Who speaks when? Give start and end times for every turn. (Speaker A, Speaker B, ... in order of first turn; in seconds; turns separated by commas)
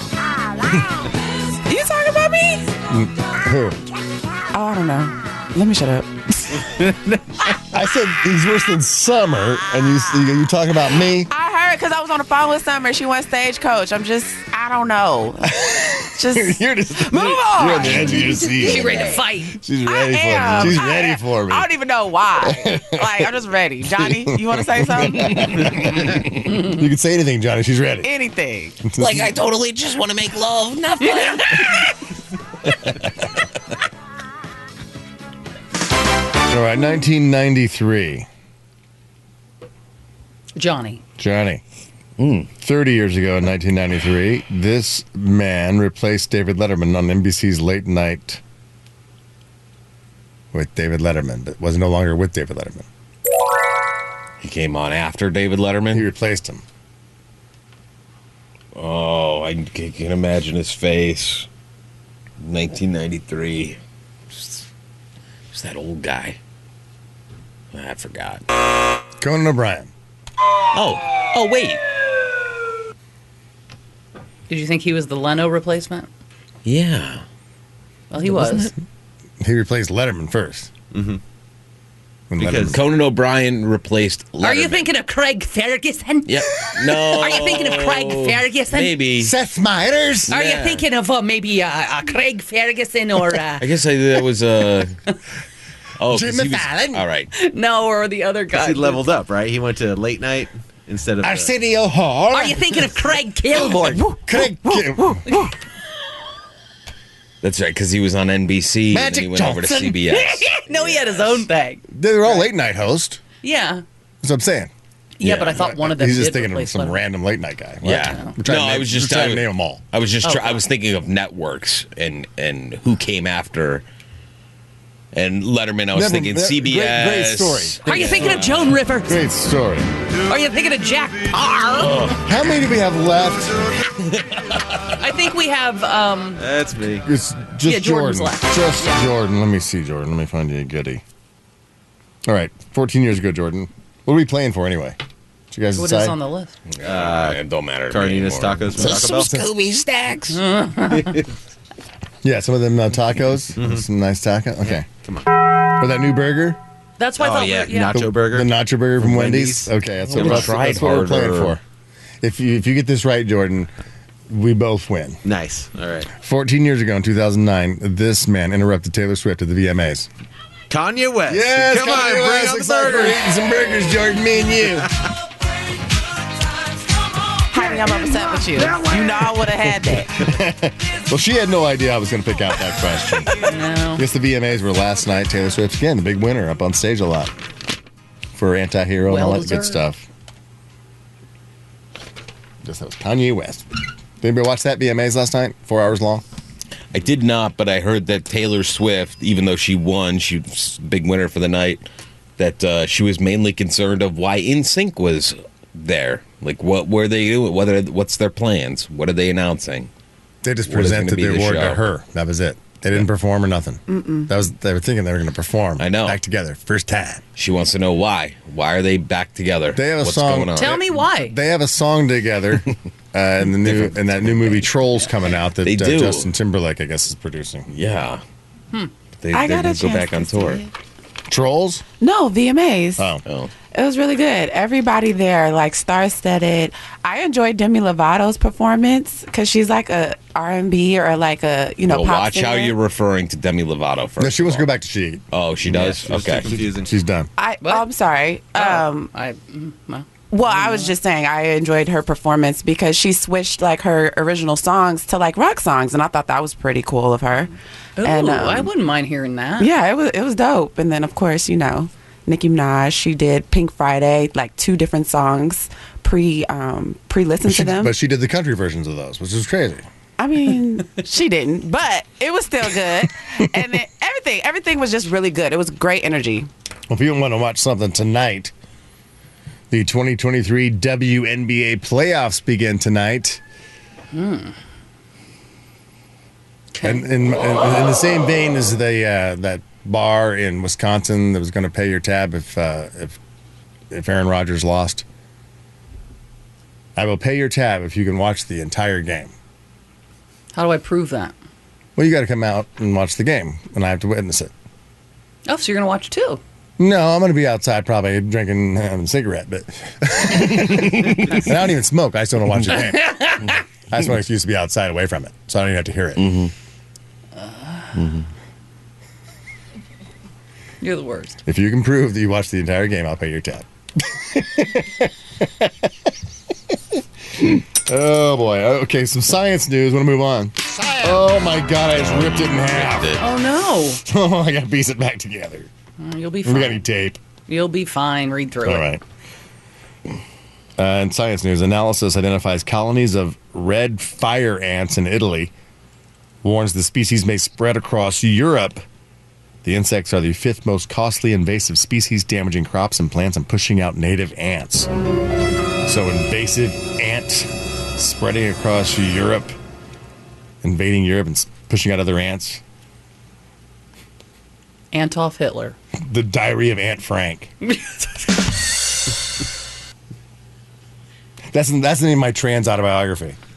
Speaker A: 1.6-2.7, Speaker B: 2.9-3.8, Speaker A: 4.5-6.7, Speaker B: 7.7-11.3, Speaker A: 11.3-18.4, Speaker B: 15.6-21.7, Speaker C: 18.4-19.6, Speaker A: 19.8-25.8, Speaker B: 22.4-23.3, Speaker B: 23.9-28.1, Speaker A: 28.0-28.8, Speaker B: 28.8-29.4, Speaker D: 29.0-31.9, Speaker C: 31.3-31.6, Speaker B: 36.5-38.3, Speaker C: 40.5-41.0, Speaker B: 41.2-41.6, Speaker D: 42.2-42.5, Speaker B: 42.6-48.4, Speaker B: 50.5-52.9, Speaker D: 54.4-56.1, Speaker B: 55.9-56.6, Speaker D: 58.7-61.5, Speaker D: 62.4-63.8, Speaker D: 65.5-66.4, Speaker D: 67.7-68.4, Speaker B: 69.2-69.9, Speaker D: 70.7-71.8, Speaker C: 74.5-76.1, Speaker D: 76.6-77.2, Speaker C: 78.1-78.7, Speaker D: 78.2-78.7, Speaker B: 79.4-80.7, Speaker E: 80.9-81.2, Speaker B: 82.3-82.8, Speaker E: 82.4-82.8, Speaker D: 82.7-84.9, Speaker C: 84.4-86.4, Speaker D: 86.2-89.3, Speaker C: 87.0-88.9, Speaker B: 89.2-90.3, Speaker D: 90.3-90.8, Speaker C: 90.3-93.7, Speaker D: 93.6-94.9, Speaker D: 96.0-97.3, Speaker B: 96.1-97.0, Speaker C: 97.3-99.0, Speaker E: 98.5-101.5, Speaker B: 101.2-103.0, Speaker C: 102.3-104.1, Speaker B: 103.5-105.4, Speaker C: 105.2-105.5, Speaker D: 107.4-111.4, Speaker B: 108.9-110.0, Speaker C: 110.1-112.5, Speaker B: 111.9-113.2, Speaker C: 113.4-113.8, Speaker B: 114.2-114.7, Speaker C: 115.2-117.0, Speaker D: 115.2-115.6, Speaker B: 115.4-119.8, Speaker D: 117.8-123.8, Speaker C: 118.0-118.3, Speaker C: 120.2-120.6, Speaker D: 125.1-128.7, Speaker B: 125.9-127.8, Speaker C: 127.8-129.2, Speaker B: 129.1-129.9, Speaker C: 130.2-131.9, Speaker D: 131.8-132.2, Speaker B: 132.2-133.6, Speaker C: 135.0-136.4, Speaker E: 136.4-137.1, Speaker B: 137.0-141.0, Speaker C: 137.6-139.0, Speaker B: 142.2-145.0, Speaker B: 145.5-146.2, Speaker C: 145.7-146.5, Speaker D: 146.7-150.4, Speaker E: 146.8-149.3, Speaker C: 150.3-151.2, Speaker E: 150.9-151.3, Speaker B: 152.2-154.9, Speaker E: 153.6-153.8, Speaker E: 154.7-155.3, Speaker B: 155.8-156.6, Speaker C: 157.0-158.0, Speaker E: 157.2-161.2, Speaker B: 157.9-161.6, Speaker D: 160.1-161.6, Speaker B: 162.2-163.7, Speaker B: 164.3-165.2, Speaker E: 165.2-166.1, Speaker B: 166.2-170.1, Speaker E: 170.7-173.2, Speaker B: 171.3-174.9, Speaker A: 177.5-180.3, Speaker B: 180.2-183.3, Speaker C: 183.4-184.1, Speaker B: 183.9-187.3, Speaker B: 188.3-190.0, Speaker C: 189.1-189.8, Speaker B: 192.6-193.7, Speaker B: 194.2-196.2, Speaker D: 196.9-201.8, Speaker D: 202.4-209.9, Speaker B: 210.4-217.2, Speaker D: 210.7-211.8, Speaker A: 213.9-214.2, Speaker D: 215.8-216.2, Speaker D: 217.3-220.7, Speaker B: 219.7-227.7, Speaker C: 220.6-221.3, Speaker D: 223.6-224.6, Speaker D: 225.6-226.3, Speaker D: 227.7-228.2, Speaker D: 229.2-230.6, Speaker A: 229.3-230.7, Speaker B: 231.3-231.8, Speaker A: 232.0-233.1, Speaker B: 233.0-233.2, Speaker D: 233.2-233.5, Speaker A: 233.7-242.8, Speaker D: 241.8-244.7, Speaker B: 244.2-245.2, Speaker D: 245.3-246.6, Speaker E: 245.6-247.0, Speaker B: 246.8-247.3, Speaker A: 247.4-249.1, Speaker C: 247.6-247.9, Speaker C: 248.5-250.9, Speaker A: 250.3-258.7, Speaker C: 258.0-259.7, Speaker A: 259.6-267.9, Speaker B: 267.4-269.9, Speaker A: 270.2-276.5, Speaker B: 276.9-278.5, Speaker B: 279.7-283.4, Speaker C: 284.1-284.5, Speaker C: 286.7-287.0, Speaker B: 286.8-293.2, Speaker B: 293.9-295.0, Speaker B: 296.9-299.3, Speaker C: 300.5-301.3, Speaker B: 301.9-304.5, Speaker C: 305.4-306.4, Speaker B: 306.8-313.4, Speaker D: 311.0-311.3, Speaker B: 313.9-316.2, Speaker D: 316.2-316.5, Speaker C: 317.4-317.9, Speaker D: 317.9-318.3, Speaker C: 320.8-321.4, Speaker B: 321.4-325.9, Speaker B: 327.7-333.1, Speaker D: 331.9-333.2, Speaker C: 333.2-334.0, Speaker B: 334.0-335.7, Speaker C: 336.0-336.8, Speaker B: 336.4-337.2, Speaker C: 337.5-338.9, Speaker B: 338.6-339.0, Speaker B: 340.8-345.5, Speaker B: 346.4-348.8, Speaker B: 349.6-354.9, Speaker B: 355.8-359.5, Speaker B: 360.6-362.6, Speaker C: 364.9-365.8, Speaker B: 366.0-367.5, Speaker C: 367.6-368.1, Speaker B: 371.5-373.4